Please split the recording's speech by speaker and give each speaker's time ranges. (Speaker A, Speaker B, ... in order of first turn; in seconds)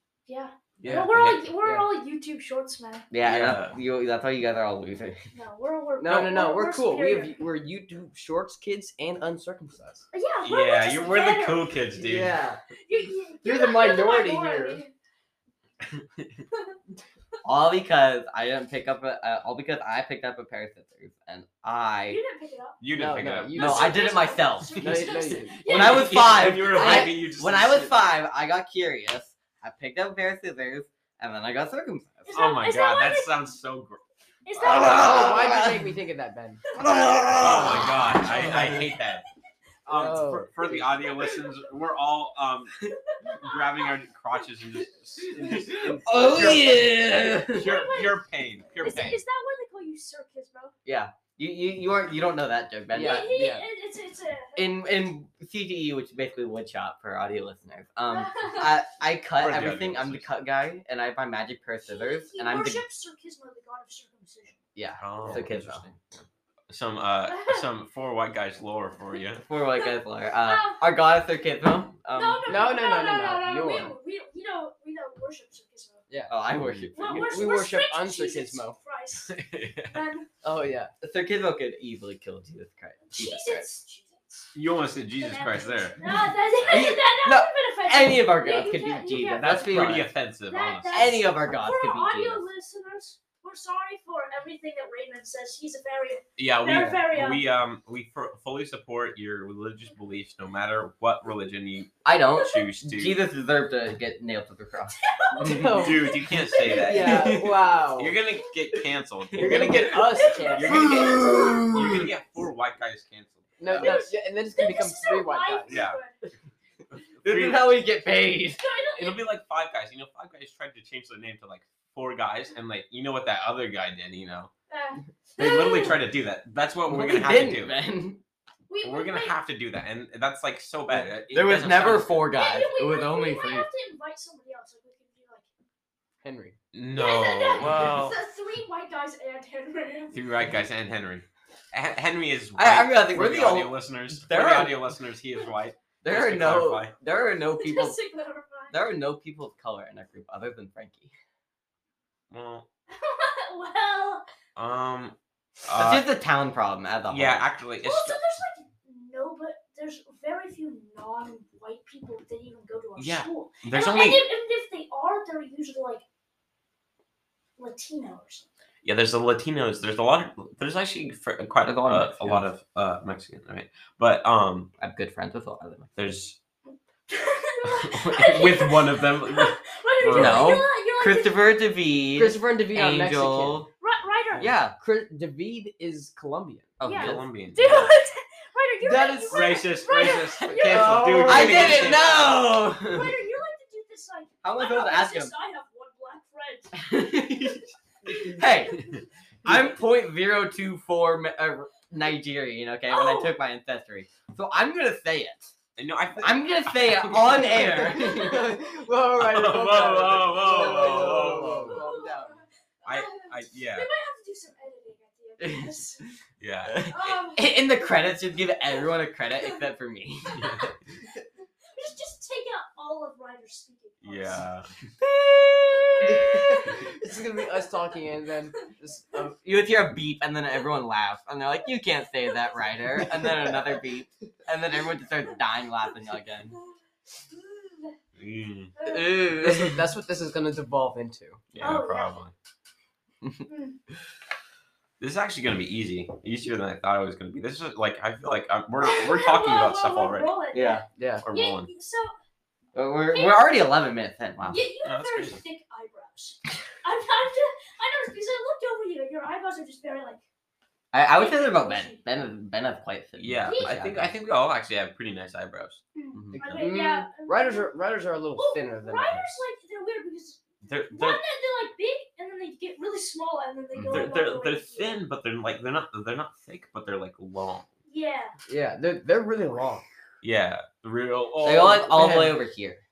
Speaker A: 0.3-3.1, 5.3-7.3, 10.1-11.7, 12.8-14.9, 22.1-22.8, 23.5-27.1, 32.3-33.3, 34.4-35.5, 37.5-37.9, 42.9-43.9, 47.5-48.2, 48.8-50.7, 53.0-54.6, 58.1-58.7, 61.9-64.6, 67.2-67.7, 70.4-70.8, 72.1-76.0, 76.9-79.3, 79.9-80.3, 83.1-84.5, 85.2-90.0, 90.5-97.4, 105.0-107.2, 110.1-111.3, 114.5-116.1, 118.6-119.2, 124.7-126.0, 128.7-129.3, 132.3-135.5, 136.9-140.2, 147.5-148.8, 152.9-154.2, 157.8-166.0, 167.6-168.4, 177.1-181.4, 183.8-184.5, 186.8-191.9, 192.8-196.8, 202.9-203.4, 207.9-208.3, 211.6-216.0, 216.8-217.5, 220.3-220.7, 221.7-224.4, 226.5-226.9, 237.3-237.9, 238.8-239.2, 241.6-242.2, 243.5-243.8, 248.8-252.1, 253.1-253.5, 254.5-260.2, 261.1-262.0, 263.5-263.8, 265.9-267.7, 268.3-275.0, 277.9-278.3
Speaker B: 0.8-1.4, 3.2-3.8, 10.4-12.4, 15.9-16.2, 22.8-23.9, 24.8-28.1, 32.3-34.0, 34.6-35.2, 37.4-39.2, 39.9-49.2, 59.4-60.3, 65.0-69.4, 79.2-80.0, 84.5-86.0, 89.4-91.2, 96.4-103.2, 105.6-114.1, 115.7-116.0, 117.2-117.7, 118.9-124.5, 125.4-127.8, 128.8-132.3, 136.7-138.2, 140.1-146.9, 152.3-152.7, 154.6-156.1, 157.1-158.2, 163.0-164.2, 168.8-174.7, 175.9-176.4, 177.7-180.6, 186.9-187.9, 189.3-192.4, 205.8-207.7, 209.2-211.8, 212.8-213.9, 216.4-217.1, 224.0-224.7, 238.2-238.7, 241.5-242.3, 245.0-250.3, 251.2-251.7, 254.8-255.4, 263.2-265.8, 266.4-266.6, 270.6-271.2, 273.9-277.7, 280.2-282.1
Speaker C: 0.8-1.9, 6.0-10.0, 11.9-12.6, 13.4-14.8, 22.9-24.2, 24.8-25.6, 26.7-27.1, 34.6-36.6, 39.9-40.5, 45.5-46.8, 52.9-53.7, 72.4-74.0, 76.1-78.8, 80.4-80.9, 96.7-97.0, 105.4-106.2, 106.8-108.2, 109.4-111.4, 113.6-115.8, 136.2-136.6, 182.2-183.7, 184.8-186.7, 188.8-192.1, 207.6-212.4, 226.0-229.3, 239.4-241.4, 251.0-251.2, 266.4-269.3, 278.5-279.8, 281.8-282.4
Speaker D: 3.1-5.2, 17.4-22.2, 23.5-24.8, 25.7-32.4, 34.6-35.8, 36.8-38.8, 46.0-47.7, 50.8-53.3, 54.5-62.8, 64.8-66.0, 69.5-72.6, 76.3-77.5, 81.0-83.7, 86.6-90.1, 90.9-92.5, 102.0-105.7, 109.4-109.7, 110.6-112.1, 117.2-118.6, 126.9-128.2, 130.9-133.7, 142.6-144.9, 146.0-147.9, 148.7-151.1, 155.7-157.5, 171.7-172.4, 174.8-175.9, 180.1-183.7, 184.3-184.7, 186.8-187.9, 191.2-193.1, 194.4-195.3, 196.7-198.9, 199.4-205.5, 206.2-208.5, 209.8-211.8, 215.4-215.7, 216.6-220.6, 225.0-226.8, 229.4-236.5, 238.8-239.9, 250.5-250.8, 252.7-254.6, 260.9-264.1, 266.1-266.4, 273.7-274.1, 281.4-282.8